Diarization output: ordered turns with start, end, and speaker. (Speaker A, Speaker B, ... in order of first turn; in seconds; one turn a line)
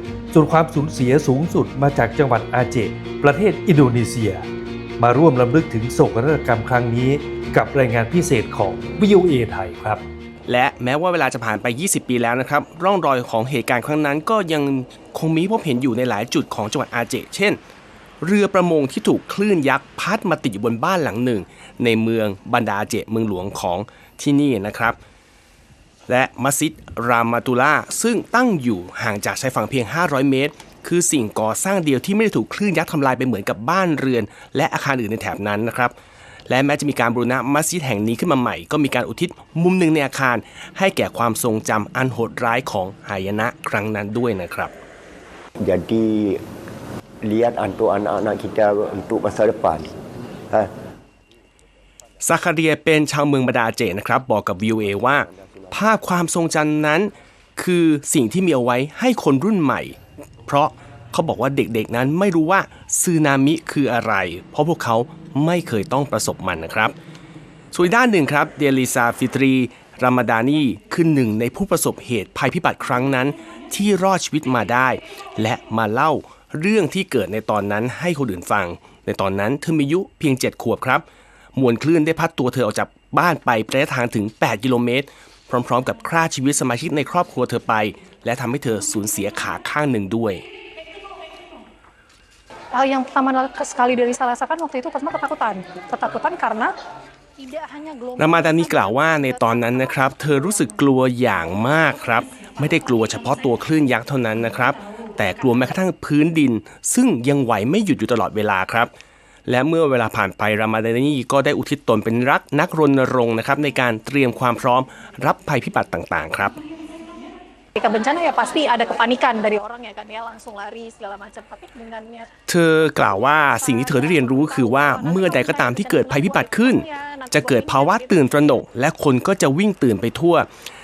Speaker A: 0.3-4.4
Speaker A: 5.0-10.0
Speaker B: 10.5-17.6
Speaker B: 18.2-25.0
Speaker B: 26.1-35.9
Speaker B: 36.5-44.7
Speaker C: 45.6-46.4
Speaker C: 47.2-50.7
Speaker B: 52.2-66.9
Speaker B: 67.7-81.0
Speaker B: 81.5-90.4
Speaker D: 92.7-96.7
Speaker D: 97.4-100.8
Speaker B: 98.2-108.9
Speaker B: 109.5-116.6
Speaker D: 117.8-122.3
Speaker B: 122.5-130.5
Speaker D: 123.2-128.6